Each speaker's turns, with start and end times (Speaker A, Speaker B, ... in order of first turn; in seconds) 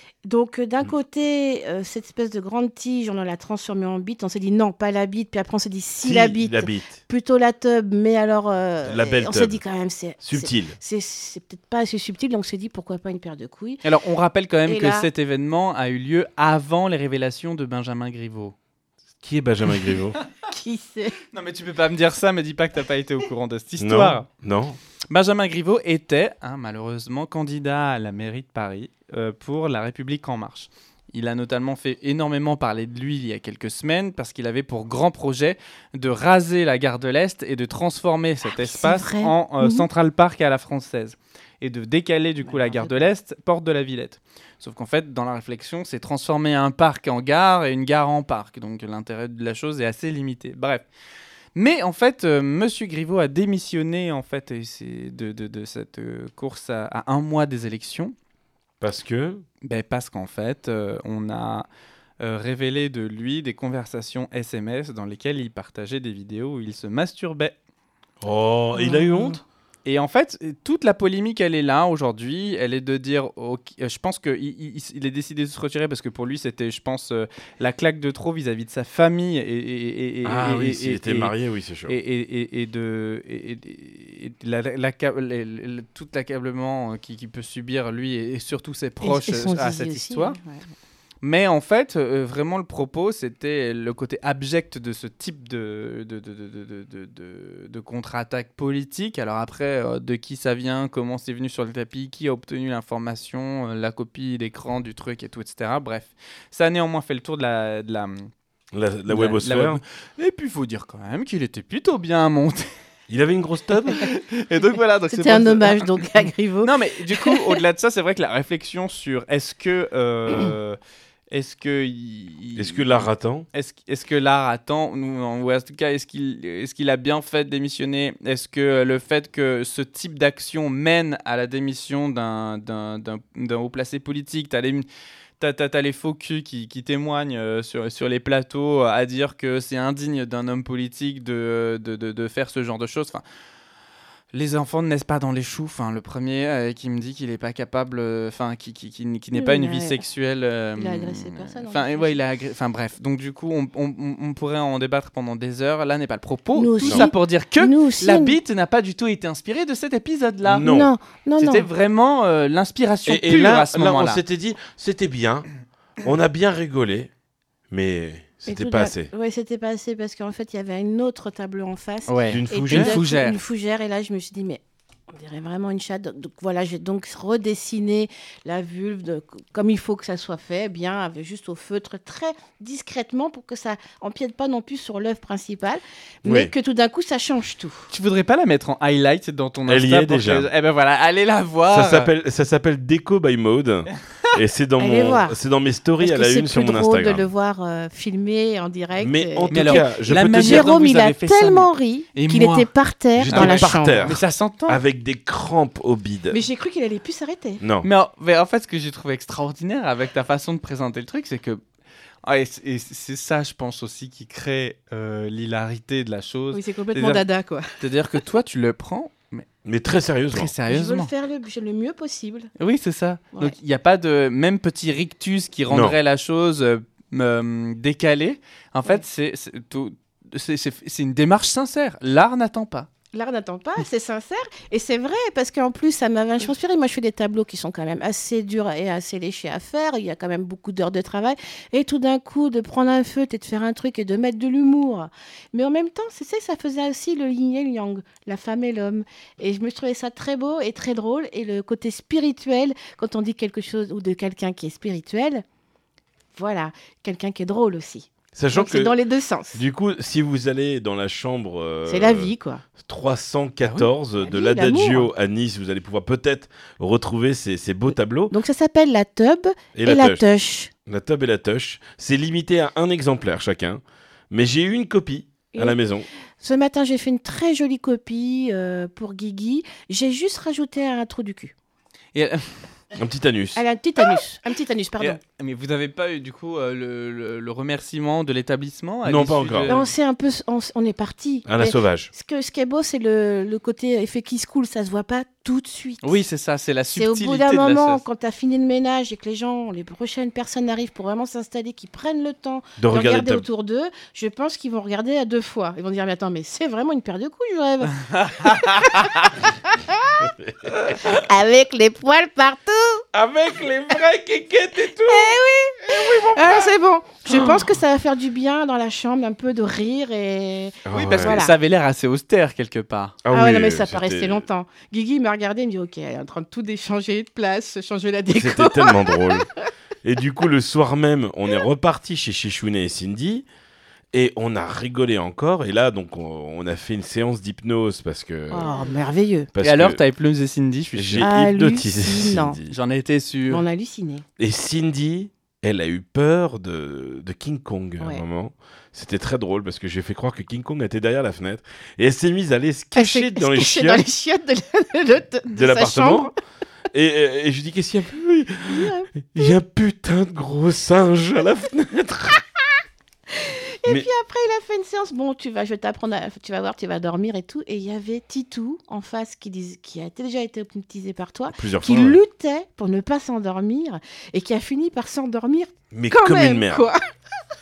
Speaker A: 0.2-13.8, 14.7-15.1, 20.4-21.2, 38.5-39.9, 42.4-43.1, 68.8-69.4, 89.0-90.6, 115.1-117.6, 149.3-150.0, 150.8-152.2, 156.6-158.4, 160.6-161.7, 168.5-187.9, 194.8-195.4, 196.0-204.1, 206.3-207.6, 216.5-217.8, 220.7-222.5, 233.1-255.4, 256.3-259.6, 261.9-262.6, 264.2-265.1, 268.3-270.7, 275.5-275.8, 276.4-281.5, 283.6-285.2, 289.7-296.2, 296.9-310.3, 310.9-313.0, 315.0-321.5, 323.3-329.6, 338.5-339.5, 341.2-342.6, 343.5-344.2, 352.9-356.3, 358.6-359.5, 363.3-377.0
Speaker B: 6.0-7.0, 8.8-9.6, 10.2-10.8, 19.2-20.2, 23.8-24.8, 58.8-59.4, 68.2-69.4, 80.2-82.0, 108.7-109.8, 113.1-114.1, 122.5-123.5, 160.4-160.9, 163.1-165.4, 166.0-167.1, 167.7-169.1, 172.3-173.0, 186.2-186.5, 189.7-190.5, 191.7-197.3, 199.0-200.7, 203.2-206.4, 207.6-207.9, 219.6-220.5, 225.7-226.0, 258.3-258.9, 259.5-268.4, 269.8-270.2, 270.9-276.1, 283.0-283.6, 289.0-289.7, 291.5-292.1, 302.8-303.4, 310.2-311.3, 313.1-316.7, 317.2-317.8, 320.9-321.4, 323.2-324.4, 328.3-329.5, 330.0-333.4, 334.1-338.7, 339.5-340.0, 340.9-342.8, 344.4-354.0, 355.5-356.3, 356.9-362.4, 371.5-372.2, 375.9-376.9
Speaker C: 13.8-18.5, 21.3-24.2, 25.1-50.9, 51.5-58.1, 59.6-61.6, 62.2-67.5, 69.8-81.3, 81.9-90.4, 91.2-108.3, 109.1-112.7, 114.0-116.0, 116.6-120.8, 121.3-134.9, 135.4-143.2, 144.3-160.7, 161.4-164.2, 172.1-173.4, 187.9-192.1, 199.5-202.7, 203.3-204.8, 207.8-211.6, 212.2-217.2, 217.8-219.4, 220.3-221.1, 222.6-232.9, 282.1-282.5, 285.0-289.9, 296.0-298.0, 307.9-309.2, 320.9-323.2, 339.6-341.3, 342.7-343.6